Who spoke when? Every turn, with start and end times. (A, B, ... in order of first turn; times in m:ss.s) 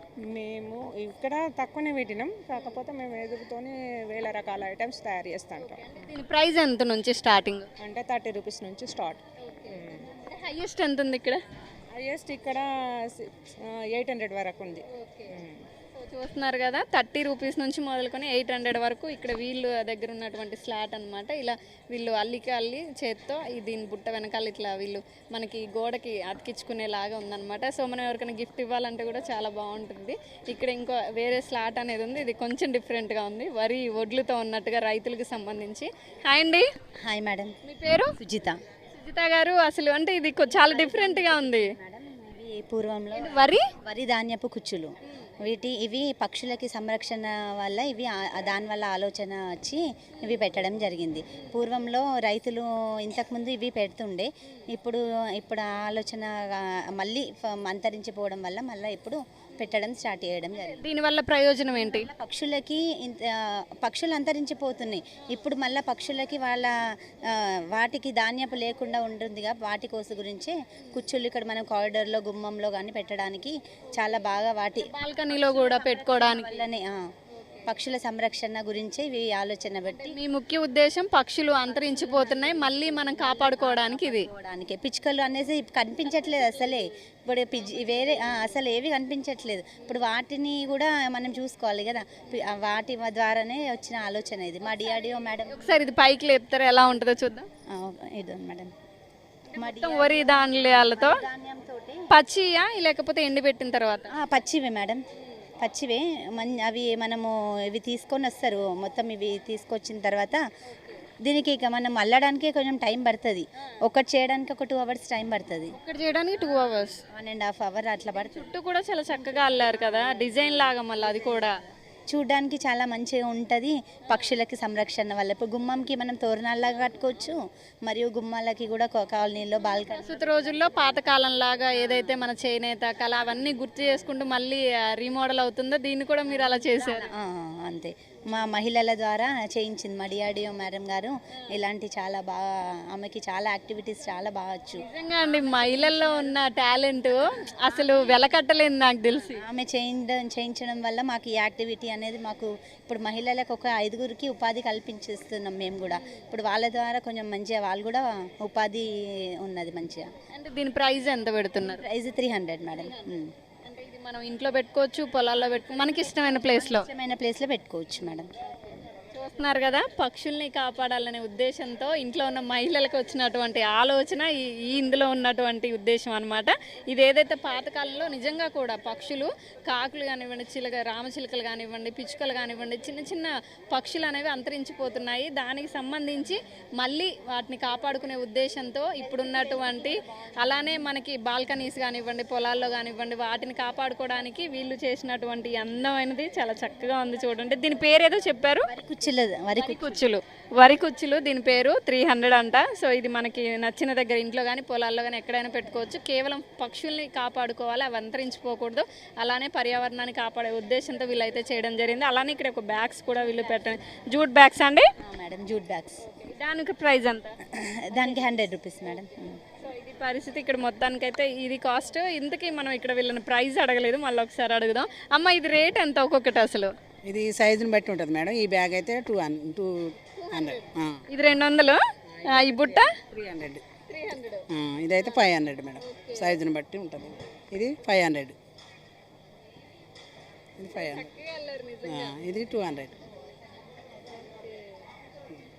0:00.3-0:05.8 A
0:05.6-0:07.7 B
0:07.8-0:10.1 A
0:09.4-0:11.4 B
0:11.9-0:15.7 A
0:14.9-0:15.4 B
0:15.9-0:36.7 B
0:37.0-0:37.6 C
0:37.6-0:38.1 B
0:38.2-0:38.6 C
0:38.9-0:41.7 B
0:40.5-1:00.8 C
0:43.2-0:43.7 B
1:00.6-1:02.1 B
1:01.7-1:17.0 C
1:14.8-1:16.7 B
1:17.3-1:17.7 B
1:17.7-1:20.2 C
1:19.9-1:24.3 B
1:21.7-1:35.8 C
1:34.8-1:37.5 B
1:37.7-1:38.7 C
1:39.5-1:41.2 B
1:39.5-1:42.0 C
1:42.1-1:44.1 B
1:44.1-1:45.0 C
1:45.6-1:50.4 C
1:50.7-1:51.0 B
1:51.2-1:55.8 C
1:55.7-1:57.0 B
1:57.1-1:58.5 C
1:58.2-2:01.6 B
2:02.1-2:10.4 C
2:04.1-2:04.4 B
2:09.9-2:17.1 B
2:11.8-2:12.3 C
2:13.8-2:14.1 C
2:16.3-2:26.1 C
2:24.8-2:29.4 B
2:27.7-2:28.3 C
2:29.3-2:40.1 C
2:40.3-2:41.8 B
2:41.6-2:43.3 C
2:42.8-2:43.1 B
2:43.6-2:46.9 B
2:46.3-2:48.3 C
2:49.1-3:18.7 B
3:18.7-3:20.0 C
3:19.6-3:34.9 B
3:35.0-3:36.0 C
3:36.0-3:37.4 B
3:37.5-3:39.4 C
3:37.9-3:39.0 B
3:39.6-3:46.7 B
3:47.1-3:51.0 D
3:50.1-3:53.0 B
3:52.1-3:53.6 D
3:53.9-3:54.5 B
3:54.5-3:58.4 D
3:55.8-3:56.4 B
4:00.6-4:01.1 D
4:00.7-4:02.3 B
4:01.8-4:03.0 D
4:04.2-4:04.7 B